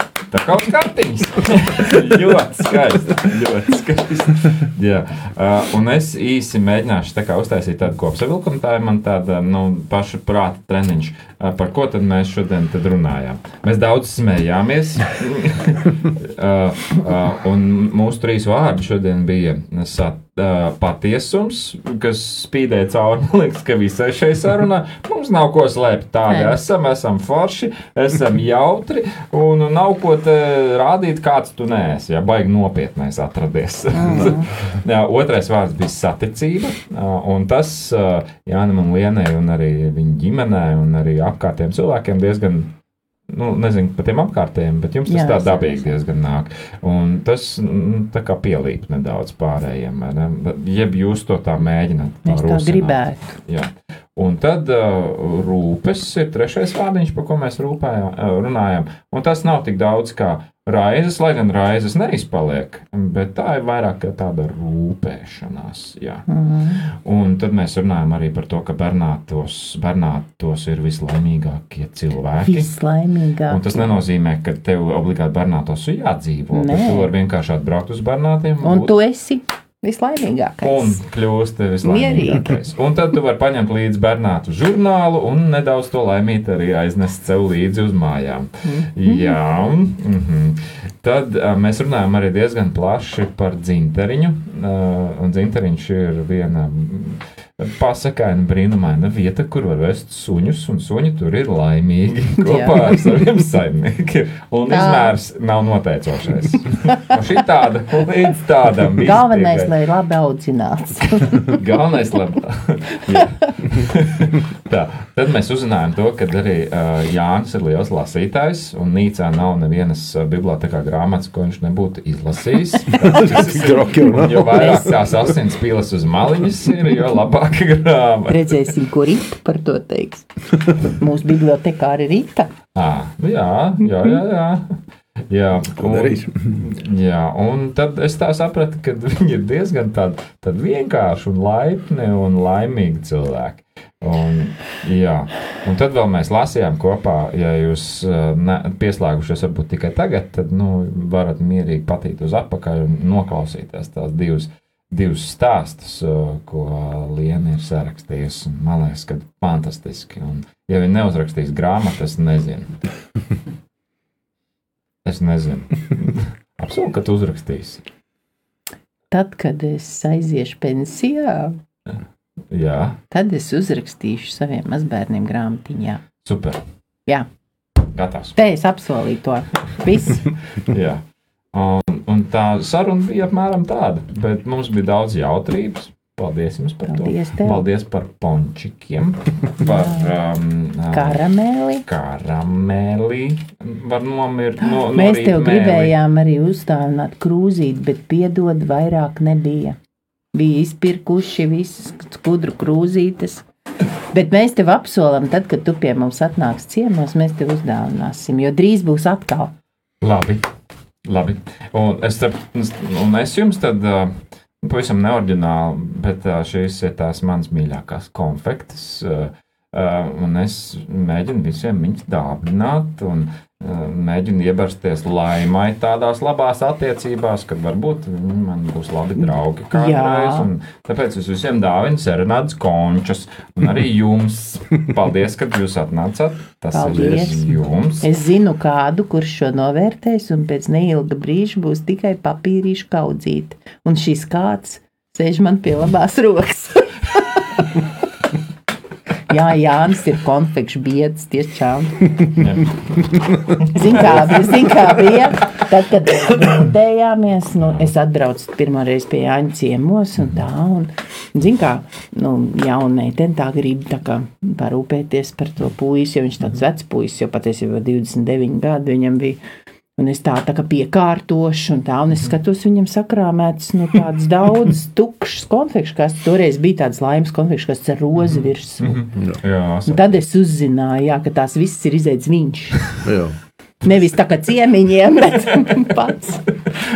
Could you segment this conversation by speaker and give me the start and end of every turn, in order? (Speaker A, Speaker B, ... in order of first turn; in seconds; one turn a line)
Speaker A: 0.3-42.7
Speaker B: 26.3-26.6
Speaker B: 33.9-34.5
Speaker A: 43.3-66.3
Speaker B: 45.1-46.0
Speaker B: 52.2-53.4
Speaker B: 66.3-66.8
Speaker A: 66.8-72.7
Speaker B: 72.4-74.0
Speaker A: 73.5-78.9
Speaker B: 76.5-77.1
Speaker B: 78.6-81.0
Speaker A: 80.6-109.7
Speaker B: 81.8-82.5
Speaker B: 88.6-89.4
Speaker B: 102.4-103.0
Speaker B: 104.7-105.1
Speaker B: 109.0-111.5
Speaker A: 111.4-128.7
Speaker C: 123.0-124.7
Speaker B: 124.4-125.1
Speaker B: 128.3-132.5
Speaker A: 132.7-162.9
Speaker C: 135.7-136.7
Speaker A: 165.0-167.8
Speaker B: 169.1-171.6
Speaker A: 172.5-173.0
Speaker B: 173.1-176.0
Speaker A: 176.2-176.6
Speaker A: 177.9-178.4
Speaker B: 178.3-180.3
Speaker A: 180.6-191.3
Speaker B: 186.9-187.6
Speaker B: 189.6-190.1
Speaker B: 190.9-191.8
Speaker A: 191.8-195.9
Speaker B: 194.7-199.8
Speaker B: 200.3-203.4
Speaker B: 204.1-209.5
Speaker A: 210.0-210.5
Speaker A: 211.0-238.1
Speaker B: 229.2-230.5
Speaker B: 236.7-237.4
Speaker B: 238.0-247.6
Speaker B: 249.3-252.3
Speaker A: 252.4-254.7
Speaker B: 253.6-269.4
Speaker B: 270.0-279.0
Speaker A: 278.2-280.2
Speaker C: 279.1-279.4
Speaker B: 279.9-282.9
Speaker C: 283.0-283.3
Speaker B: 283.8-286.4